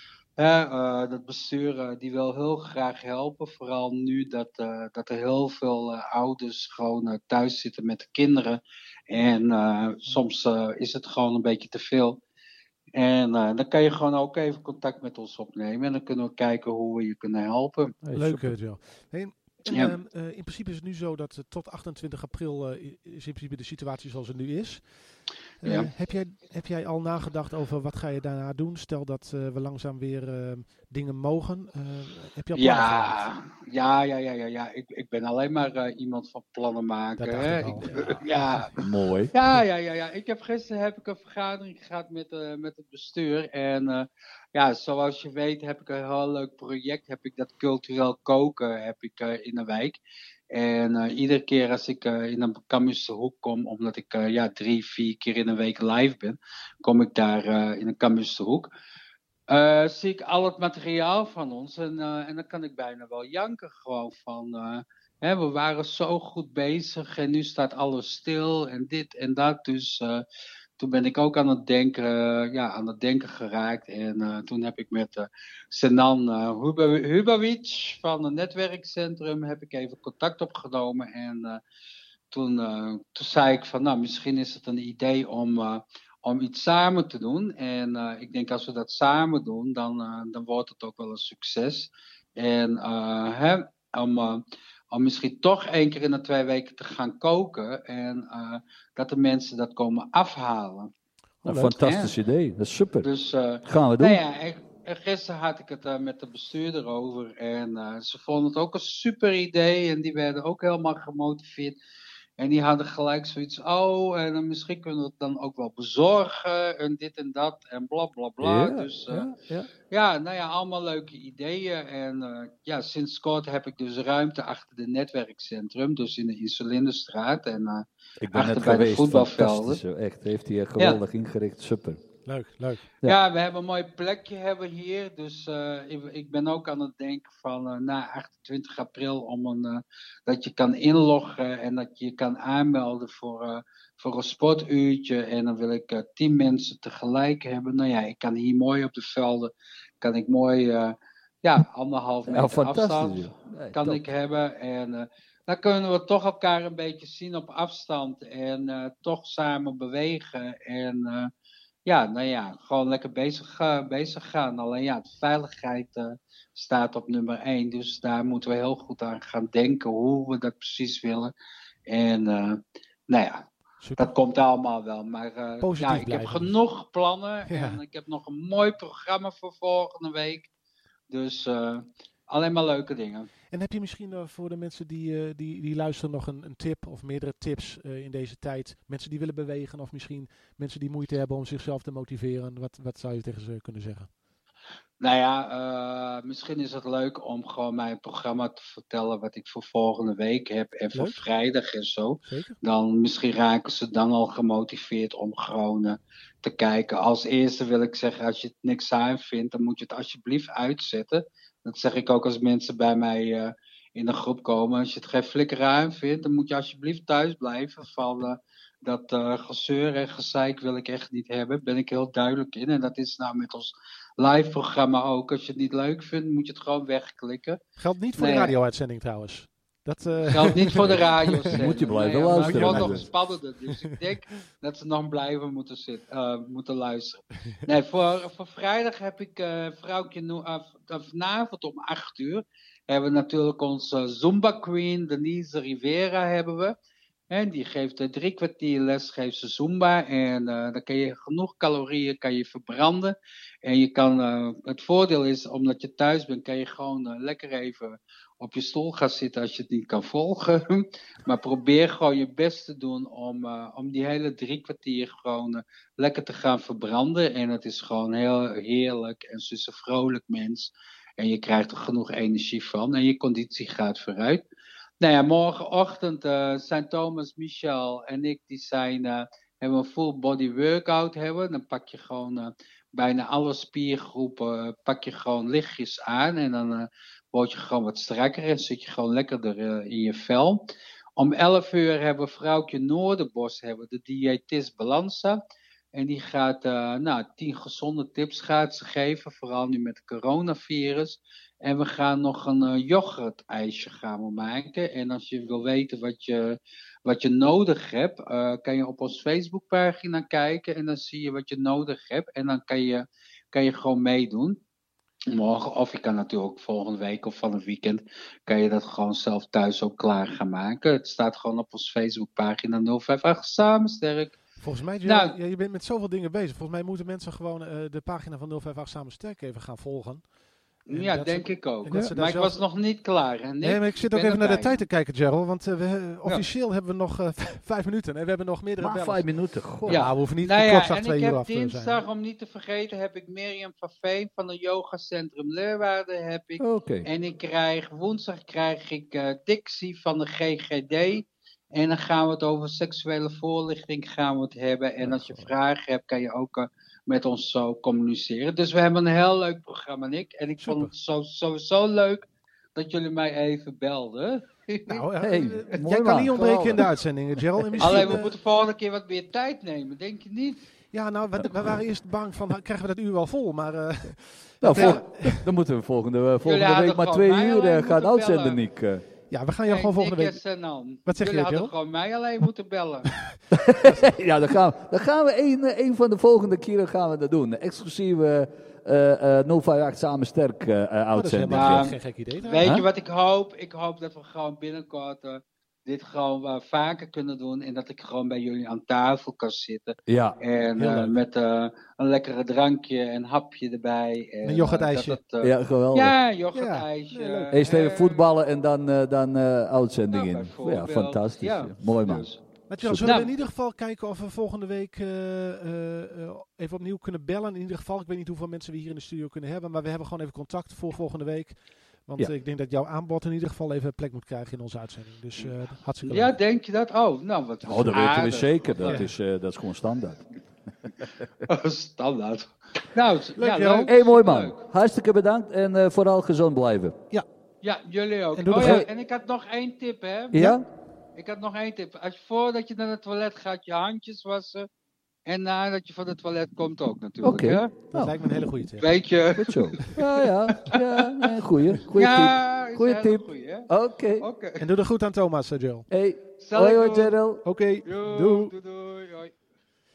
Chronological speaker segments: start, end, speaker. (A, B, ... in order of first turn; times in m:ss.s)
0:00.4-0:12.2 A
0:12.9-0:18.0 A
0:18.0-0:18.6 B
0:18.1-0:33.2 C
0:19.7-0:19.9 A
0:25.6-0:25.9 A
0:32.5-0:38.8 A
0:37.2-0:38.7 C
0:37.7-0:38.2 B
0:38.8-0:39.3 B
0:39.3-0:50.0 A
0:50.5-0:58.7 A
0:59.5-1:10.2 A
1:10.8-1:21.6 A
1:22.3-1:40.9 A
1:41.4-1:41.7 C
1:41.4-1:43.1 B
1:41.5-1:42.1 A
1:43.0-1:51.8 A
1:43.6-1:44.2 B
1:52.4-1:59.3 A
1:58.4-1:59.7 B
1:59.9-2:09.8 A
2:08.2-2:12.0 B
2:12.2-2:12.9 C
2:13.0-2:41.3 A
2:32.2-2:34.1 B
2:41.8-2:51.3 A
2:51.9-2:53.4 A
2:53.8-2:54.1 C
2:54.0-3:00.5 A
2:55.6-2:56.5 C
2:57.5-2:57.8 C
3:01.1-3:03.3 A
3:03.5-3:14.1 C
3:15.0-3:47.6 A
3:22.2-3:22.6 C
3:47.8-3:51.6 C
3:48.2-3:48.6 A
3:50.2-4:06.7 A
3:50.8-3:53.1 B
3:52.2-3:53.1 C
4:07.3-4:34.4 A
4:35.0-4:55.4 A
4:55.9-5:14.6 A
5:15.3-5:24.4 A
5:24.6-5:32.6 C
5:25.0-5:25.4 A
5:30.8-5:34.8 A
5:33.6-5:42.0 C
5:38.8-5:40.1 B
5:39.8-6:05.1 A
5:46.6-5:47.1 B
6:00.6-6:00.9 C
6:04.9-6:08.3 C
6:05.2-6:08.2 B
6:07.8-6:10.6 A
6:10.9-6:15.5 C
6:14.6-6:19.0 B
6:14.7-6:15.0 A
6:16.4-6:18.6 A
6:19.3-6:20.4 C
6:19.6-6:23.1 A
6:21.0-6:21.7 C
6:23.1-6:24.0 C
6:23.6-6:31.9 B
6:31.1-6:32.8 C
6:31.5-6:48.2 A
6:40.1-6:40.4 B
6:40.8-6:41.2 C
6:44.4-6:45.2 C
6:45.4-6:46.2 B
6:46.5-6:47.5 C
6:47.5-6:53.2 B
6:50.1-6:53.4 A
6:52.7-7:06.4 C
7:06.0-7:09.1 A
7:07.6-7:10.7 B
7:07.9-7:09.1 C
7:11.4-7:14.6 A
7:13.4-7:13.9 C
7:13.8-7:17.0 B
7:17.6-7:20.5 A
7:18.3-7:18.8 C
7:18.6-7:18.9 B
7:20.3-7:20.6 B
7:21.2-7:24.7 A
7:25.3-7:27.8 A
7:27.2-7:28.7 B
7:27.9-7:29.0 C
7:28.8-7:31.3 A
7:29.4-7:34.2 B
7:31.9-7:34.7 A
7:34.6-7:35.9 C
7:35.9-7:37.4 B
7:36.4-7:37.3 A
7:37.4-7:38.5 C
7:37.8-7:39.3 A